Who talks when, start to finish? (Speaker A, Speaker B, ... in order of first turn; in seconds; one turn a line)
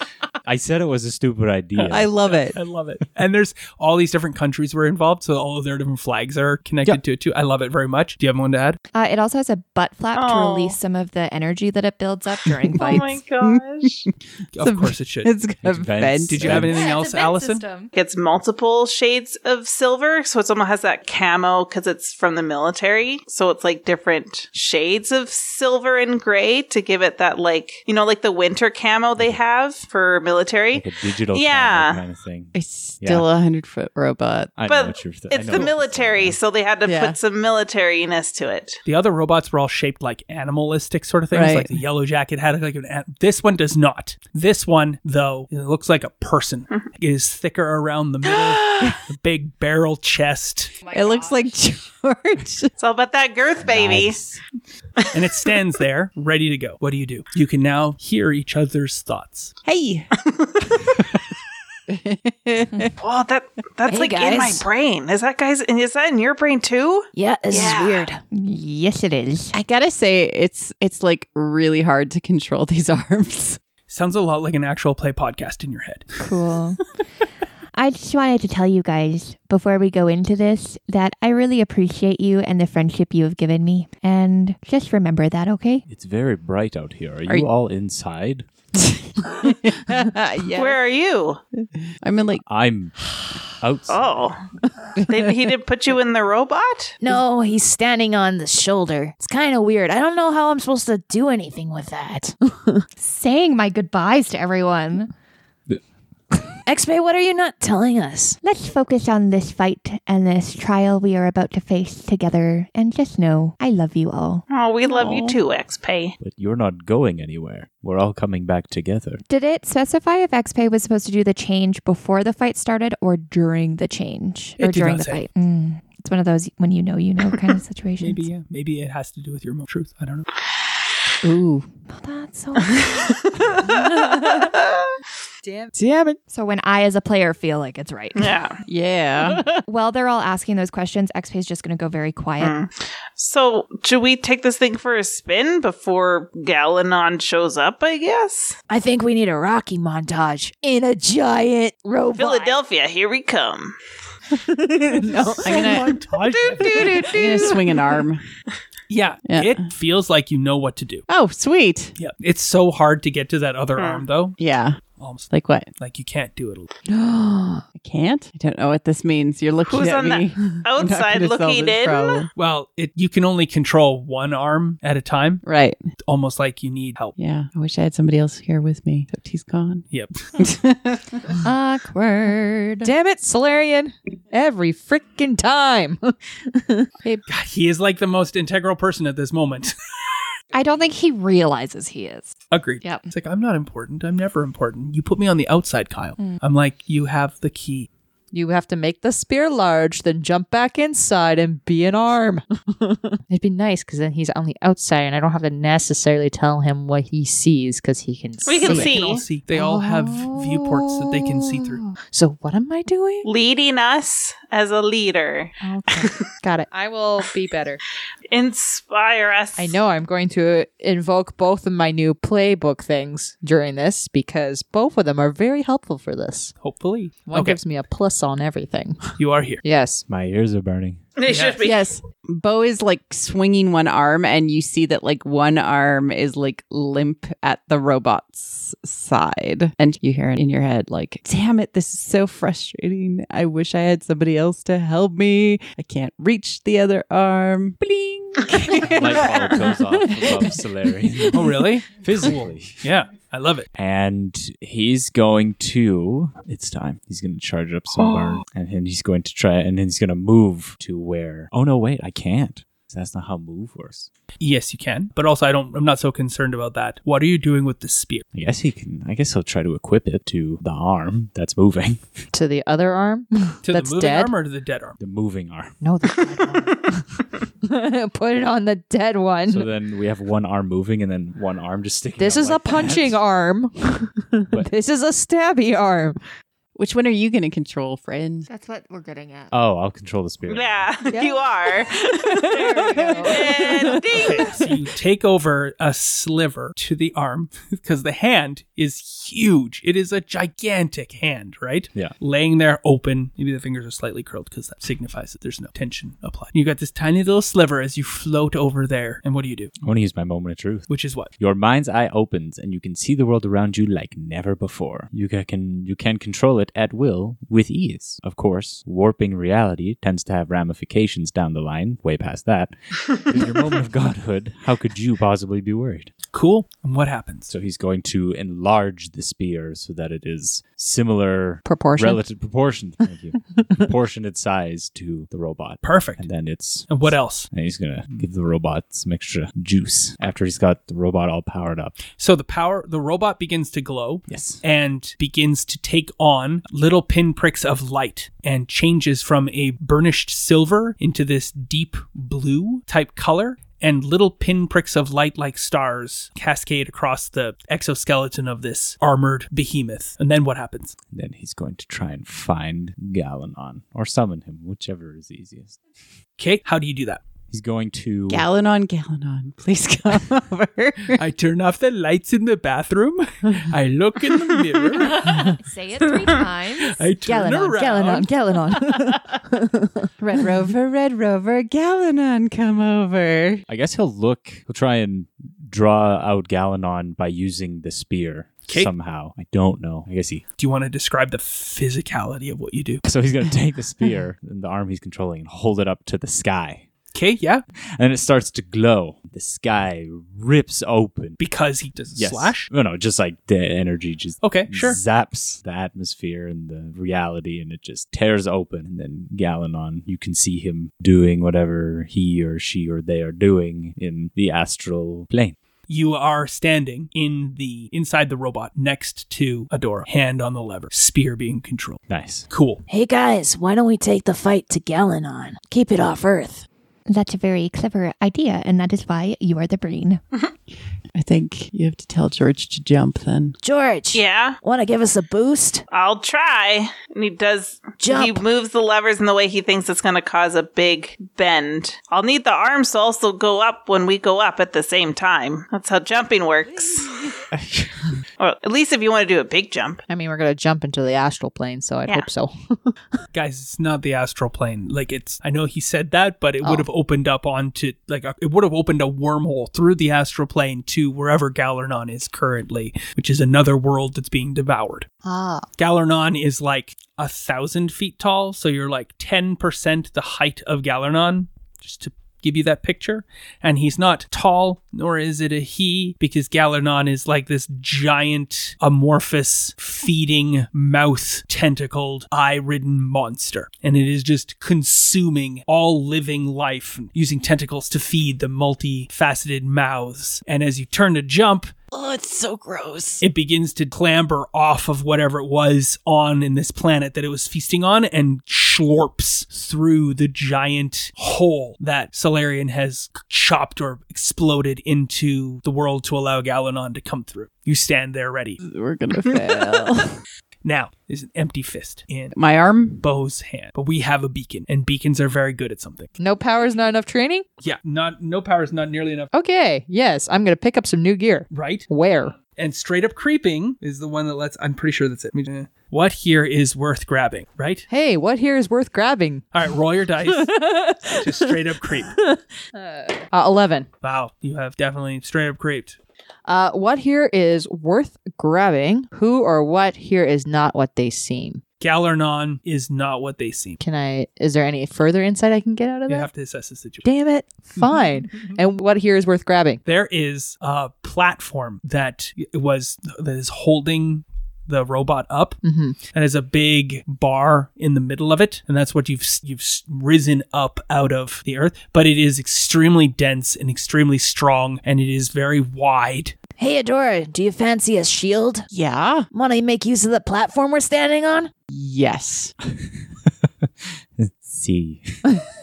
Speaker A: 0.5-2.1
Speaker B: 1.8-8.8
Speaker C: 1.9-2.6
Speaker D: 8.9-13.2
Speaker E: 10.2-10.8
Speaker E: 12.8-14.1
Speaker C: 12.8-16.7
Speaker B: 14.6-15.3
Speaker A: 15.6-16.9
Speaker B: 16.3-17.6
Speaker D: 16.7-17.9
Speaker E: 17.9-32.0
Speaker A: 30.7-33.3
Speaker C: 32.5-34.5
Speaker A: 34.6-36.4
Speaker E: 34.6-38.8
Speaker C: 36.8-37.2
Speaker B: 38.9-50.8
Speaker C: 41.3-41.8
Speaker C: 48.6-49.0
Speaker C: 50.9-52.7
Speaker E: 52.8-54.2
Speaker A: 53.6-54.4
Speaker B: 55.1-59.5
Speaker C: 59.6-60.1
Speaker C: 60.6-60.9
Speaker C: 61.9-62.9
Speaker E: 63.0-68.1
Speaker F: 63.9-64.7
Speaker F: 67.2-68.2
Speaker D: 68.3-69.6
Speaker C: 69.5-73.6
Speaker B: 73.9-76.1
Speaker D: 76.2-76.8
Speaker D: 77.8-85.8
Speaker A: 85.9-88.5
Speaker C: 89.2-90.8
Speaker E: 90.5-91.4
Speaker C: 92.0-92.4
Speaker A: 92.5-93.0
Speaker A: 93.5-94.2
Speaker E: 93.9-94.4
Speaker E: 95.0-97.0
Speaker F: 97.0-102.3
Speaker G: 97.0-97.8
Speaker G: 102.2-102.8
Speaker D: 103.0-105.1
Speaker F: 106.7-108.4
Speaker D: 108.4-114.5
Speaker E: 114.5-116.2
Speaker C: 114.9-115.4
Speaker A: 116.2-119.2
Speaker D: 119.3-128.2
Speaker B: 124.6-125.3
Speaker B: 128.0-130.3
Speaker G: 131.2-131.7
Speaker D: 131.9-132.9
Speaker G: 133.8-134.4
Speaker G: 135.4-135.9
Speaker C: 135.8-136.2
Speaker D: 136.3-138.3
Speaker E: 138.2-138.6
Speaker C: 138.7-139.5
Speaker D: 139.5-142.6
Speaker E: 142.4-148.6
Speaker F: 148.7-152.6
Speaker E: 152.2-153.8
Speaker G: 154.4-157.6
Speaker C: 155.4-158.2
Speaker B: 155.5-156.9
Speaker B: 158.9-161.1
Speaker C: 159.3-159.6
Speaker C: 161.1-161.9
Speaker B: 162.0-164.4
Speaker E: 163.8-164.1
Speaker C: 164.4-164.8
Speaker B: 165.0-166.7
Speaker C: 165.3-165.7
Speaker G: 166.9-167.7
Speaker C: 167.8-172.3
Speaker E: 169.7-172.3
Speaker B: 172.3-175.4
Speaker C: 175.4-175.8
Speaker B: 176.0-177.2
Speaker C: 177.2-179.8
Speaker C: 180.4-181.1
Speaker D: 181.4-182.9
Speaker G: 182.8-186.9
Speaker B: 187.3-189.8
Speaker D: 190.5-193.1
Speaker B: 192.5-197.9
Speaker G: 198.3-213.3
Speaker E: 208.4-209.2
Speaker B: 208.6-211.8
Speaker E: 213.2-216.3
Speaker G: 215.6-217.8
Speaker E: 218.3-219.8
Speaker G: 219.6-226.5
Speaker B: 226.6-227.6
Speaker G: 227.3-229.1
Speaker B: 229.2-229.6
Speaker G: 229.6-230.1
Speaker A: 230.1-231.0
Speaker E: 231.2-231.9
Speaker B: 231.3-231.6
Speaker C: 231.6-249.4
Speaker A: 248.8-252.9
Speaker B: 251.3-253.7
Speaker A: 253.8-264.1
Speaker B: 264.4-268.2
Speaker A: 268.3-272.2
Speaker G: 272.3-274.3
Speaker B: 273.6-275.0
Speaker A: 275.0-275.8
Speaker G: 275.8-277.1
Speaker G: 277.6-279.7
Speaker A: 279.5-283.2
Speaker G: 282.2-286.2
Speaker C: 286.8-288.5
Speaker D: 288.5-289.5
Speaker A: 289.5-290.9
Speaker E: 290.5-294.6
Speaker G: 291.1-291.5
Speaker G: 292.2-294.6
Speaker D: 292.8-293.4
Speaker B: 294.2-309.7
Speaker A: 309.8-326.1
Speaker B: 310.9-311.3
Speaker B: 326.3-327.5
Speaker A: 327.5-342.0
Speaker G: 331.7-332.2
Speaker B: 335.8-336.3
Speaker B: 336.9-337.5
Speaker B: 342.2-361.0
Speaker A: 344.3-344.6
Speaker A: 361.1-365.8
Speaker B: 366.4-367.2
Speaker A: 367.5-368.5
Speaker C: 368.3-371.2
Speaker B: 371.2-375.5
Speaker D: 375.3-377.1
Speaker B: 376.9-378.3
Speaker G: 377.3-380.1
Speaker F: 378.5-378.7
Speaker C: 380.2-383.6
Speaker A: 383.7-390.4
Speaker B: 390.6-393.0
Speaker A: 393.0-396.9
Speaker B: 397.1-397.6
Speaker A: 398.0-401.4
Speaker B: 401.4-402.7
Speaker A: 402.2-415.6
Speaker B: 404.4-405.0
Speaker B: 415.9-422.8
Speaker A: 422.1-422.5
Speaker F: 422.9-426.7
Speaker D: 427.1-430.2
Speaker C: 431.1-433.6
Speaker F: 433.6-435.8
Speaker E: 434.1-434.6
Speaker E: 435.9-447.1
Speaker F: 438.0-438.4
Speaker E: 448.4-450.0
Speaker G: 450.1-453.0
Speaker B: 453.3-465.1
Speaker G: 465.2-465.7
Speaker B: 465.8-491.7
Speaker C: 491.9-493.2
Speaker B: 493.2-508.6
Speaker C: 508.6-510.2
Speaker B: 510.6-512.4
Speaker C: 512.3-513.0
Speaker B: 513.0-516.1
Speaker G: 516.2-517.5
Speaker B: 517.6-519.3
Speaker G: 519.3-522.4
Speaker B: 521.5-527.9
Speaker G: 527.9-529.5
Speaker B: 529.5-532.1
Speaker G: 530.2-533.9
Speaker B: 534.0-536.0
Speaker G: 536.5-541.6
Speaker B: 541.8-543.8
Speaker G: 543.8-546.3
Speaker B: 546.1-547.1
Speaker G: 547.0-549.8
Speaker B: 547.8-548.5
Speaker B: 549.9-555.6
Speaker G: 555.6-556.0
Speaker B: 556.1-566.4
Speaker G: 566.6-568.6
Speaker F: 566.6-568.6
Speaker C: 568.7-569.3
Speaker F: 569.3-571.5
Speaker G: 569.4-571.5
Speaker C: 571.7-572.5
Speaker A: 572.7-575.4